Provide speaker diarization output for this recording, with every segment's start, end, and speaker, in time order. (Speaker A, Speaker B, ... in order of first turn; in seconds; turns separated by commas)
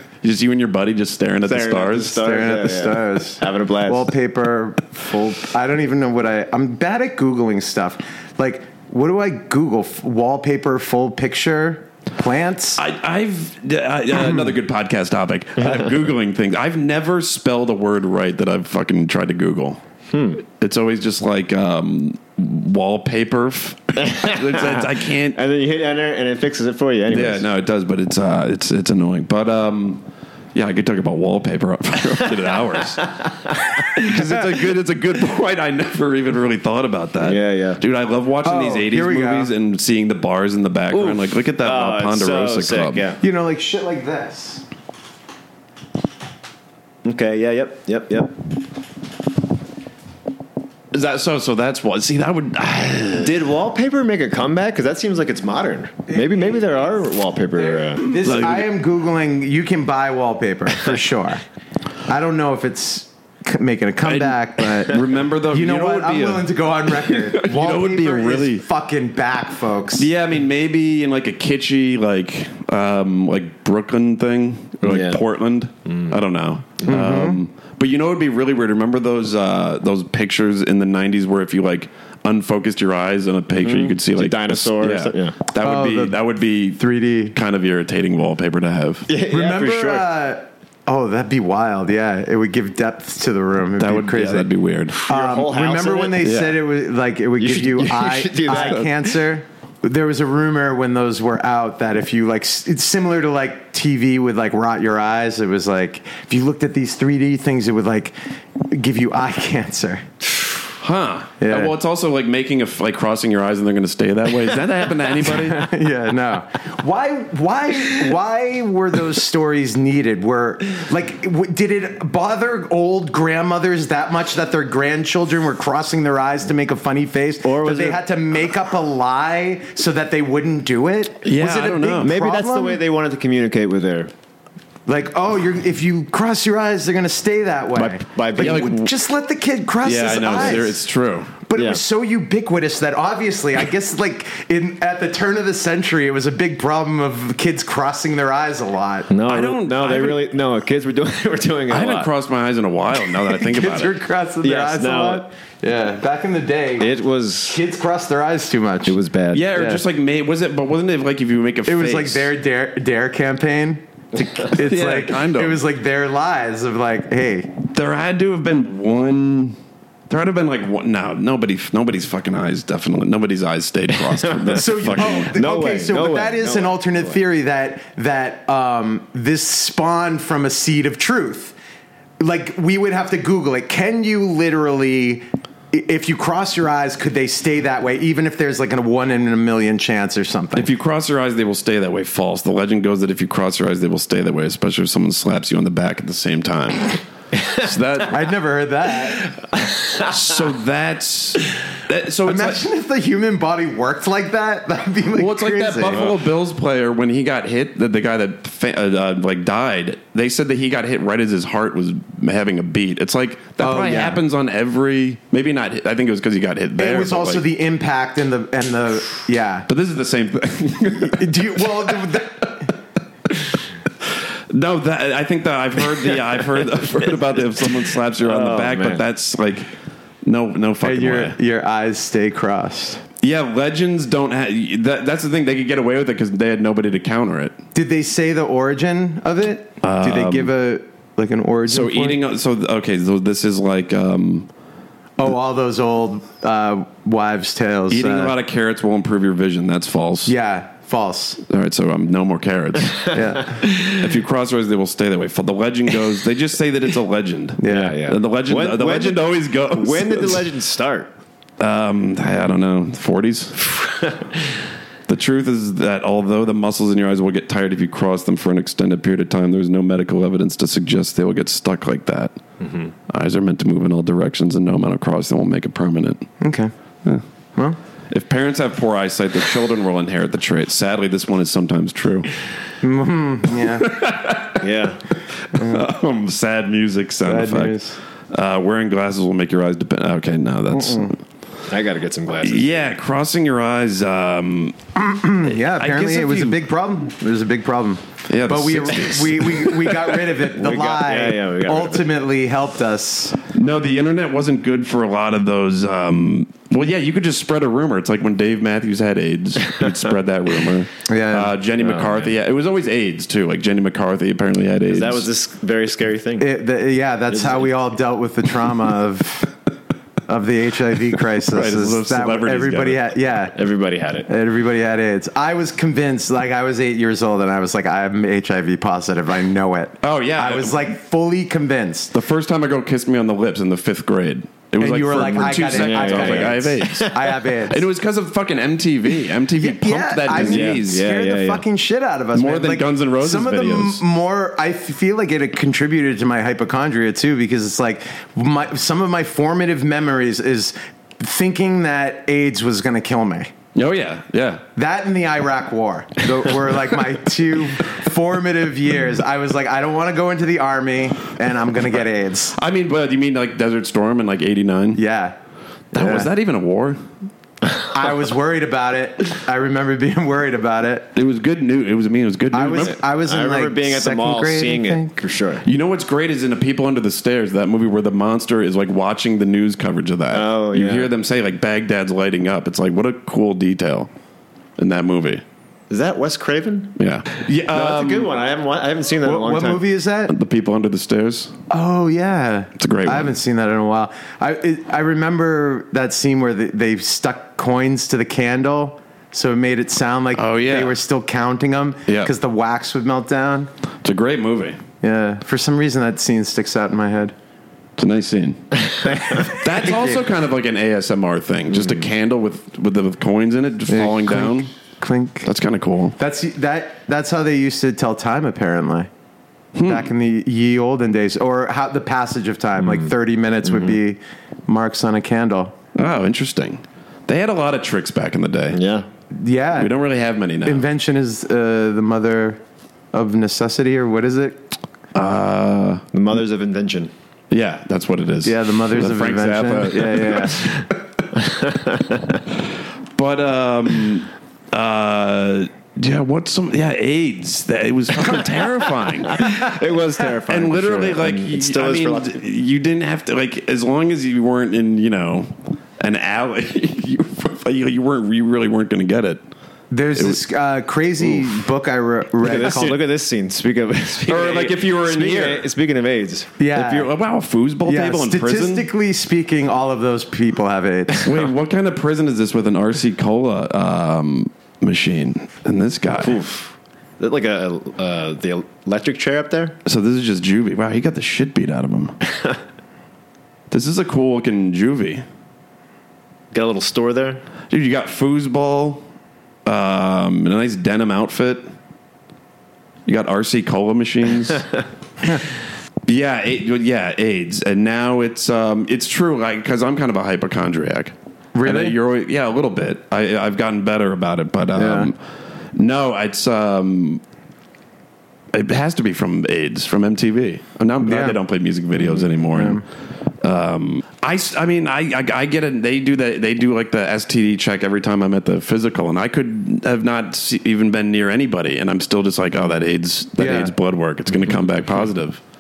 Speaker A: 0.2-2.2, Speaker B: 1.5-4.1, Speaker C: 2.2-12.8, Speaker A: 12.8-19.8, Speaker C: 14.2-14.4, Speaker B: 15.6-15.9, Speaker B: 20.1-20.4, Speaker A: 20.6-25.4, Speaker B: 24.0-27.5, Speaker A: 27.1-33.1, Speaker B: 33.1-33.5, Speaker A: 33.8-43.0, Speaker B: 37.2-37.8, Speaker C: 38.4-39.5, Speaker B: 40.9-43.2, Speaker C: 43.2-44.6, Speaker B: 47.0-48.4, Speaker A: 50.9-53.4, Speaker B: 53.2-58.3, Speaker C: 56.1-56.7, Speaker C: 57.7-61.4, Speaker A: 58.1-58.7, Speaker C: 62.1-70.1, Speaker A: 64.0-68.6, Speaker A: 70.0-89.1, Speaker B: 74.8-75.2, Speaker B: 75.9-76.2, Speaker C: 76.9-77.4, Speaker B: 83.6-85.4, Speaker C: 85.6-86.2, Speaker C: 86.8-87.4, Speaker B: 89.1-90.1, Speaker C: 89.3-94.5, Speaker A: 93.8-95.0, Speaker B: 95.0-96.4, Speaker C: 95.1-110.1, Speaker A: 96.2-96.6, Speaker B: 97.4-99.1, Speaker A: 98.5-98.8, Speaker A: 110.8-115.7, Speaker C: 111.4-111.7, Speaker C: 115.2-132.8, Speaker B: 127.4-128.0, Speaker A: 131.2-132.1, Speaker B: 132.0-134.1, Speaker C: 134.9-140.8, Speaker B: 137.8-138.8, Speaker A: 138.4-138.9, Speaker A: 139.8-141.3, Speaker C: 141.5-149.1, Speaker B: 141.6-141.8, Speaker B: 149.1-152.1, Speaker A: 149.3-150.3, Speaker A: 151.7-153.9, Speaker C: 153.2-156.9, Speaker B: 154.4-155.3, Speaker B: 156.8-157.6, Speaker C: 157.5-159.0, Speaker B: 158.8-159.5, Speaker A: 159.3-162.3, Speaker C: 159.5-159.8, Speaker C: 161.7-167.6, Speaker A: 164.5-165.6, Speaker A: 167.7-169.6, Speaker A: 170.1-175.3, Speaker B: 173.9-177.2, Speaker C: 174.5-181.6, Speaker C: 182.2-190.7, Speaker A: 190.6-198.2, Speaker C: 198.1-199.3, Speaker B: 199.6-200.1, Speaker A: 200.0-202.6, Speaker C: 202.3-206.1, Speaker A: 205.2-217.4, Speaker C: 213.6-214.2, Speaker C: 216.8-219.7, Speaker A: 219.7-222.1, Speaker C: 221.0-222.7, Speaker A: 224.5-229.7, Speaker B: 227.2-229.0, Speaker A: 230.2-231.4, Speaker C: 230.8-233.0, Speaker A: 233.2-237.6, Speaker C: 237.8-242.2, Speaker A: 239.8-240.5, Speaker A: 241.7-244.5, Speaker C: 245.2-248.3, Speaker A: 247.9-250.3, Speaker C: 250.3-251.4, Speaker A: 251.5-260.5, Speaker C: 253.1-253.6, Speaker C: 257.6-258.0, Speaker B: 257.7-261.1, Speaker A: 261.6-263.7, Speaker B: 263.6-264.5, Speaker A: 265.1-272.4, Speaker B: 272.6-272.9, Speaker A: 273.1-276.3, Speaker C: 276.4-276.7, Speaker A: 278.1-282.3, Speaker C: 282.8-283.9, Speaker A: 283.8-284.7, Speaker B: 284.6-285.0, Speaker A: 285.5-291.2, Speaker C: 285.5-285.9, Speaker C: 287.2-288.0, Speaker C: 290.7-291.1, Speaker B: 291.7-292.9, Speaker A: 292.4-294.8, Speaker C: 295.0-303.4, Speaker A: 295.4-296.6, Speaker A: 298.3-300.2, Speaker B: 300.6-302.1, Speaker A: 303.5-315.3, Speaker C: 311.1-311.5, Speaker B: 311.8-312.3, Speaker B: 314.9-316.5, Speaker C: 316.4-319.5, Speaker B: 317.3-317.7, Speaker C: 320.3-323.6, Speaker A: 321.5-323.1, Speaker B: 323.6-324.3, Speaker C: 324.3-332.1, Speaker A: 330.0-330.8, Speaker A: 332.1-341.0, Speaker C: 334.8-337.8, Speaker B: 335.4-337.2, Speaker C: 339.6-353.5, Speaker B: 340.3-341.6, Speaker A: 342.3-344.0, Speaker A: 353.8-354.6, Speaker C: 354.8-362.6, Speaker A: 362.6-365.0, Speaker C: 364.9-365.4, Speaker C: 365.9-366.3, Speaker A: 365.9-367.0, Speaker C: 367.9-371.1, Speaker A: 371.1-373.0, Speaker C: 372.5-375.2, Speaker B: 373.2-375.7, Speaker A: 375.6-384.1, Speaker B: 380.3-381.1, Speaker A: 384.8-385.4, Speaker B: 385.9-387.0, Speaker A: 387.0-388.3, Speaker B: 387.6-389.9, Speaker C: 389.2-390.3, Speaker A: 390.3-391.5, Speaker C: 391.7-403.7, Speaker A: 392.8-393.3, Speaker A: 400.4-401.0, Speaker A: 404.0-404.8, Speaker C: 405.0-407.3, Speaker A: 408.0-414.7, Speaker C: 409.3-410.2, Speaker C: 413.9-415.5, Speaker A: 415.4-416.2, Speaker C: 416.2-419.1, Speaker A: 419.8-420.1, Speaker C: 419.9-425.7, Speaker B: 422.8-423.1, Speaker B: 423.7-424.0, Speaker A: 425.9-428.8, Speaker B: 428.7-429.1, Speaker C: 429.3-429.9, Speaker A: 429.8-430.9, Speaker C: 430.6-432.6, Speaker C: 433.1-434.7, Speaker A: 435.1-436.0, Speaker B: 436.1-437.1, Speaker A: 437.5-440.9, Speaker C: 438.4-440.8, Speaker B: 441.3-442.4, Speaker A: 443.2-449.6, Speaker B: 449.2-452.4, Speaker A: 450.5-459.4, Speaker C: 459.9-463.0, Speaker B: 462.4-466.5, Speaker A: 464.3-465.7, Speaker C: 466.6-467.1, Speaker A: 466.7-468.9, Speaker C: 467.9-471.4, Speaker A: 471.2-476.4, Speaker B: 476.2-479.8, Speaker A: 479.9-482.2, Speaker A: 483.7-485.2, Speaker B: 486.5-487.4, Speaker A: 487.7-489.1, Speaker A: 489.6-491.6, Speaker A: 493.1-494.7, Speaker A: 496.1-505.2, Speaker C: 501.6-502.0, Speaker C: 504.8-505.1, Speaker A: 505.8-507.2, Speaker A: 508.5-512.8, Speaker C: 511.0-511.4, Speaker C: 512.1-512.8, Speaker A: 513.4-525.4, Speaker C: 523.4-523.7